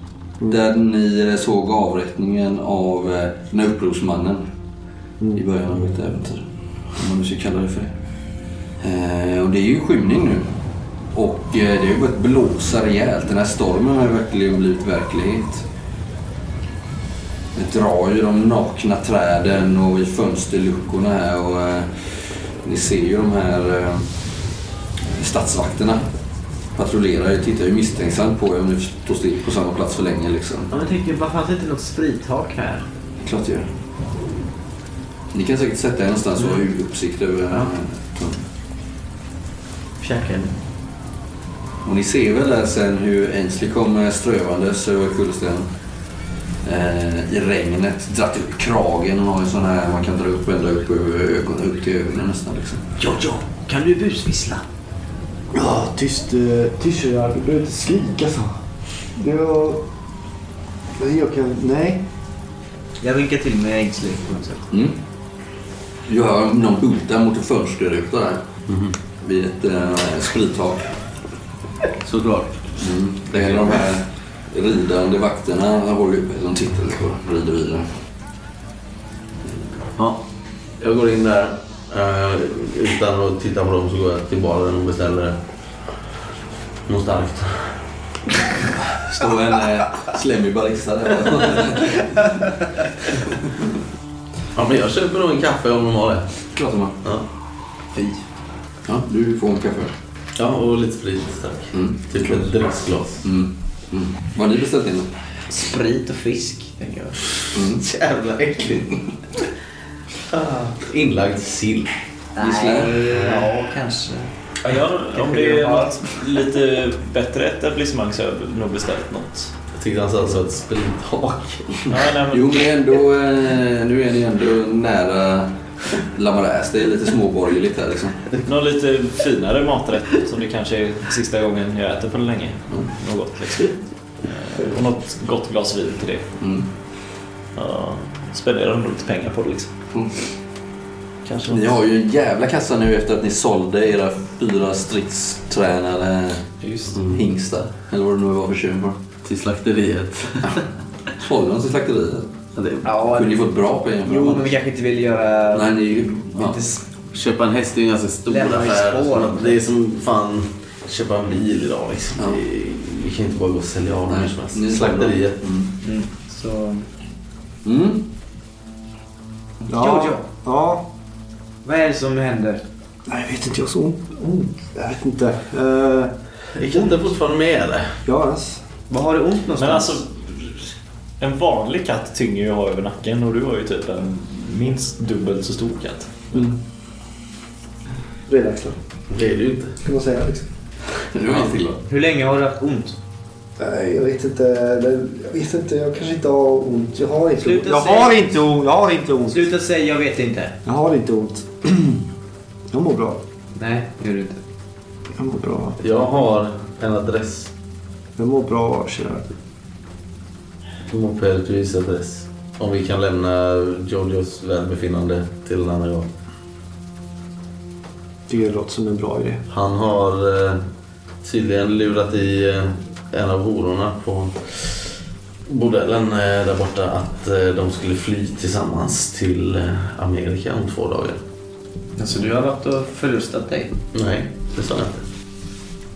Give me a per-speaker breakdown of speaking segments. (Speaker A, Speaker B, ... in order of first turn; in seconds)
Speaker A: 0.4-4.5, 5.3-8.0, 8.8-10.6, 11.1-15.7, 17.5-24.2, 25.0-26.1, 26.7-30.7, 33.2-33.7, 35.3-38.4, 41.8-45.7, 46.6-53.0, 64.7-65.0, 66.0-68.5, 69.2-71.0, 72.8-78.0, 88.9-92.2, 96.6-97.0, 98.8-99.9, 101.7-102.6, 103.2-105.1, 107.5-107.8, 112.4-113.4, 121.9-128.3, 136.4-136.7, 139.9-140.2, 141.4-146.5, 147.1-149.0, 151.2-152.3, 153.1-154.6, 155.5-156.6, 162.2-162.4, 164.1-165.7, 167.6-168.1, 191.0-191.8
Speaker B: 30.7-32.9, 40.0-40.6, 53.0-54.7, 63.0-64.7, 105.5-107.4, 110.3-110.7, 112.4-116.2, 152.8-153.4, 154.0-156.9, 158.3-159.6, 165.8-166.9, 169.6-170.2, 171.6-172.7, 178.9-180.0, 191.9-193.0, 197.4-198.5, 199.3-200.6, 203.5-204.4, 232.0-233.8
Speaker C: 55.5-59.9, 61.0-62.1, 169.7-170.9, 173.1-176.9, 178.1-178.6, 188.3-188.8, 189.8-190.5, 193.6-199.5, 200.7-202.1, 202.7-203.2, 205.2-205.8, 208.2-209.3, 218.3-219.4
Speaker D: 68.7-69.0, 72.0-73.9, 80.0-80.3, 80.8-85.4, 86.9-87.9, 94.5-96.4, 100.4-103.2, 107.8-109.0, 110.8-112.0, 119.7-121.9, 149.2-150.7, 152.6-152.9, 157.1-165.4, 176.5-178.0, 189.1-189.8, 205.8-207.5, 210.9-216.1, 219.5-220.6, 221.2-231.2, 233.9-235.1
Speaker E: 114.7-119.5, 121.9-122.5, 128.5-136.3, 137.6-139.7, 141.2-141.7, 146.6-147.0, 179.6-186.3